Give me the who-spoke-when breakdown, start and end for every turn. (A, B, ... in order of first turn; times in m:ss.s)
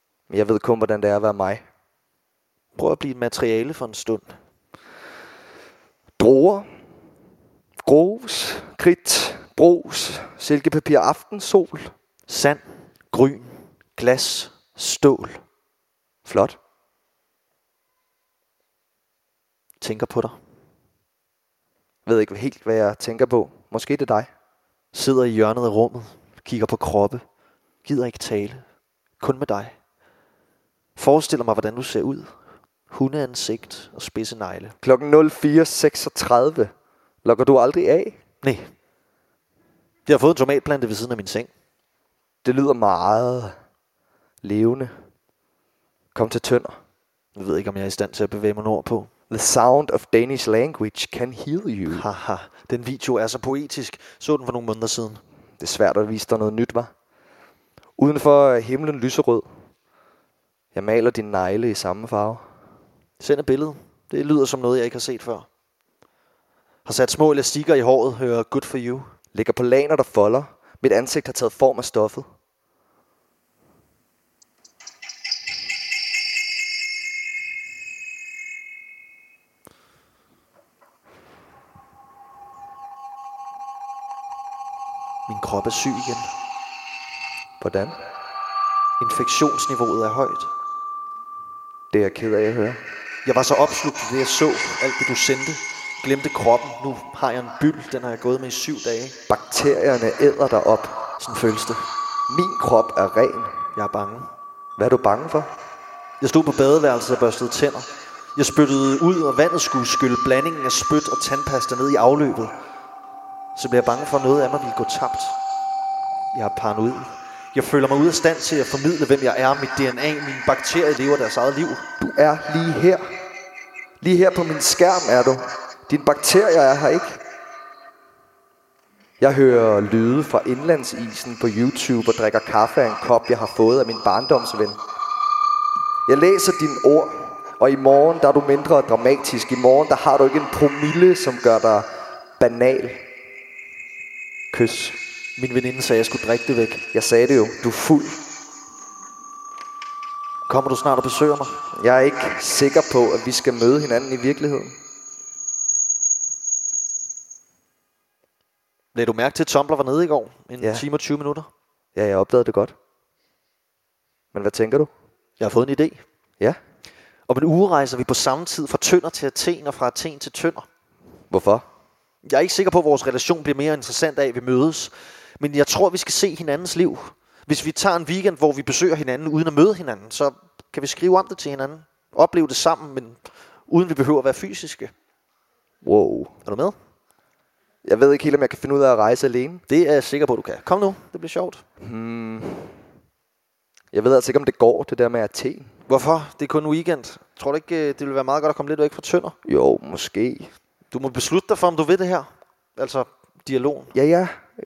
0:00.3-0:01.6 A
0:02.8-0:04.3 B
0:06.2-0:06.7 A
0:07.8-0:11.9 A
0:12.3-0:15.4 B
0:16.3-0:16.6 A
0:19.8-0:20.4 B
0:22.1-0:24.3 A
0:24.9-0:27.2 B
0:27.8-0:28.6 B
0:29.2-0:29.7 B
0:31.0-0:32.3 B
0:32.9-0:34.8 B
0:34.8-0:36.7 A
0:37.2-0:38.2 A
0:40.1-0:41.5 B
0:42.4-0:43.6 A
0:44.4-0:44.9 A
0:46.2-0:46.8 A
0:47.4-0:49.1 B
0:49.3-0:52.1 A
0:51.9-0:55.2 B
0:55.6-0:56.9 A
0:58.0-0:59.5 A
1:00.8-1:02.4 A
1:03.2-1:05.5 B
1:06.9-1:09.1 B
1:09.3-1:12.3 A
1:25.3-1:26.3 B
1:27.6-1:28.0 A
1:29.0-1:30.5 B
1:31.9-1:32.8 A
1:33.2-1:39.2 B
1:39.3-1:41.0 A
1:41.2-1:41.8 B
1:42.3-1:43.6 A
1:43.8-1:44.3 B
1:44.8-1:45.5 A
1:46.2-1:52.5 B
1:53.6-1:55.4 B
1:56.3-2:01.9 B
2:02.0-2:03.0 A
2:04.0-2:07.2 A
2:09.2-2:14.8 A
2:16.1-2:23.0 A
2:24.5-2:25.0 A
2:25.4-2:26.8 B
2:26.9-2:28.2 A
2:30.5-2:31.6 B
2:31.8-2:34.8 A
2:38.9-2:41.5 B
2:42.0-2:42.7 A
2:44.3-2:44.9 A
2:45.4-2:46.0 B
2:47.3-2:50.7 B
2:51.3-2:51.6 A
2:52.2-3:04.9 B
3:05.8-3:06.3 A
3:06.5-3:06.8 B
3:07.8-3:09.6 A
3:09.7-3:11.6 B
3:11.8-3:12.7 A
3:13.9-3:15.7 A
3:15.9-3:19.4 B
3:19.4-3:20.5 A
3:20.9-3:23.9 B
3:23.9-3:24.3 A